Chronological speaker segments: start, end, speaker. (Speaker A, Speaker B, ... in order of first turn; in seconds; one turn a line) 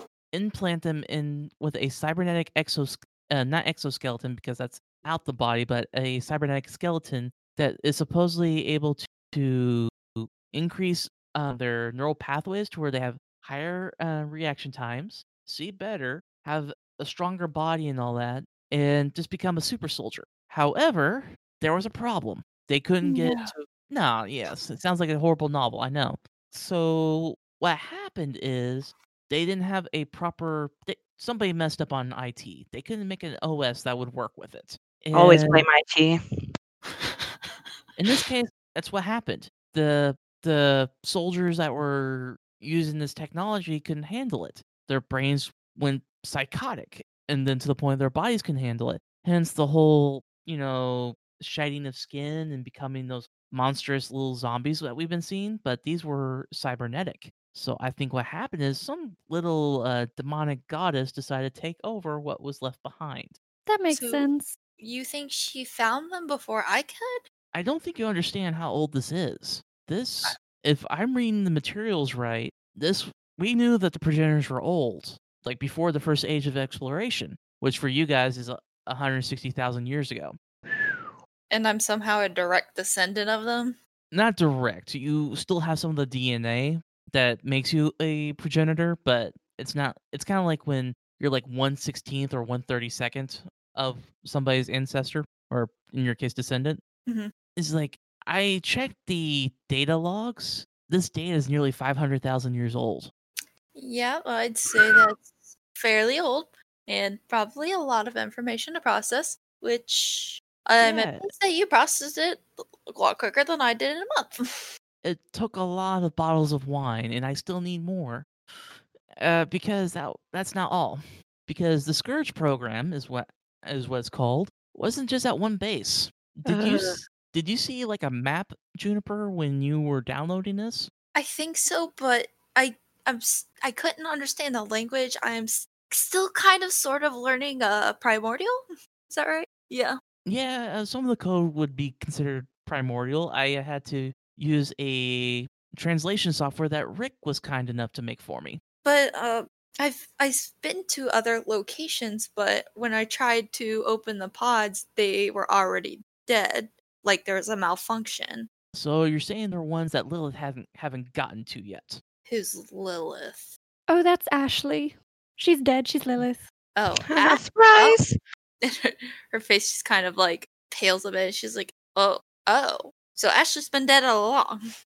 Speaker A: 0.3-35.6
Speaker B: 23.0-23.5
Speaker C: 35.1-36.2
Speaker A: 38.0-63.4
Speaker B: 63.7-64.5
Speaker D: 63.9-67.2
Speaker A: 67.5-81.0
Speaker D: 81.5-83.8
Speaker A: 84.1-96.8
Speaker D: 97.0-97.3
Speaker A: 97.5-103.1
Speaker D: 103.8-114.4
Speaker A: 110.8-111.3
Speaker A: 115.0-118.3
Speaker A: 119.2-130.9
Speaker C: 126.5-127.0
Speaker D: 131.1-140.0
Speaker A: 140.2-148.6
Speaker D: 148.8-158.5
Speaker A: 158.7-162.0
Speaker D: 162.2-163.5
Speaker B: 163.9-166.4
Speaker D: 166.8-168.0
Speaker C: 167.2-168.1
Speaker D: 168.6-174.6